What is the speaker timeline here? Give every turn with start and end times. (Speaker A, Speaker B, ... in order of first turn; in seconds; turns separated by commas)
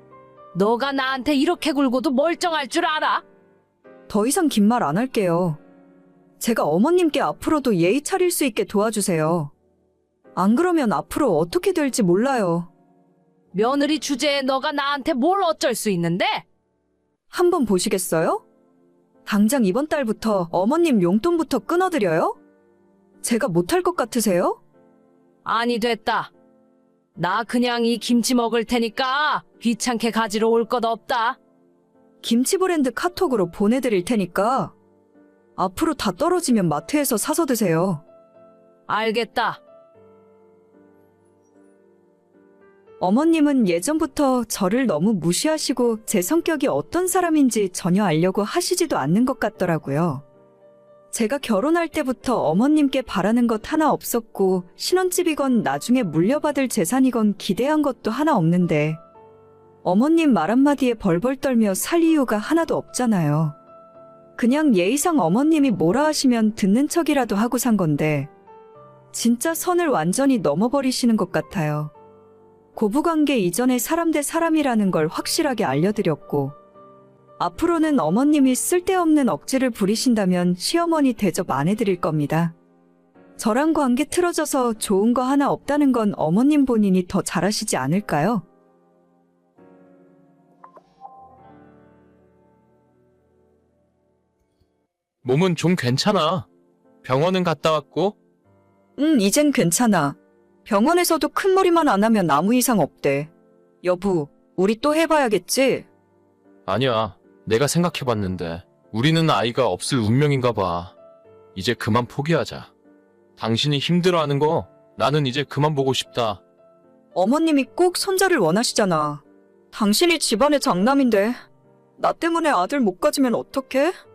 Speaker A: 0.5-3.2, Speaker B: 4.1-5.6, Speaker B: 6.4-9.5, Speaker B: 10.3-12.7, Speaker A: 13.5-16.4, Speaker B: 17.3-18.4, Speaker B: 19.2-22.4, Speaker B: 23.2-24.6, Speaker A: 25.4-26.3, Speaker A: 27.1-31.4, Speaker B: 32.2-34.7, Speaker B: 35.6-38.0, Speaker A: 38.9-39.6, Speaker B: 43.0-50.2, Speaker B: 51.1-59.0, Speaker B: 59.8-63.5, Speaker B: 64.4-68.3, Speaker B: 69.1-71.9, Speaker B: 72.7-76.5, Speaker B: 77.4-82.5, Speaker B: 83.4-88.4, Speaker C: 95.2-96.5, Speaker C: 97.0-98.2, Speaker B: 99.0-103.3, Speaker B: 103.8-105.8, Speaker C: 106.7-110.9, Speaker C: 111.5-112.7, Speaker C: 113.4-116.4, Speaker B: 117.1-121.4, Speaker B: 122.0-123.9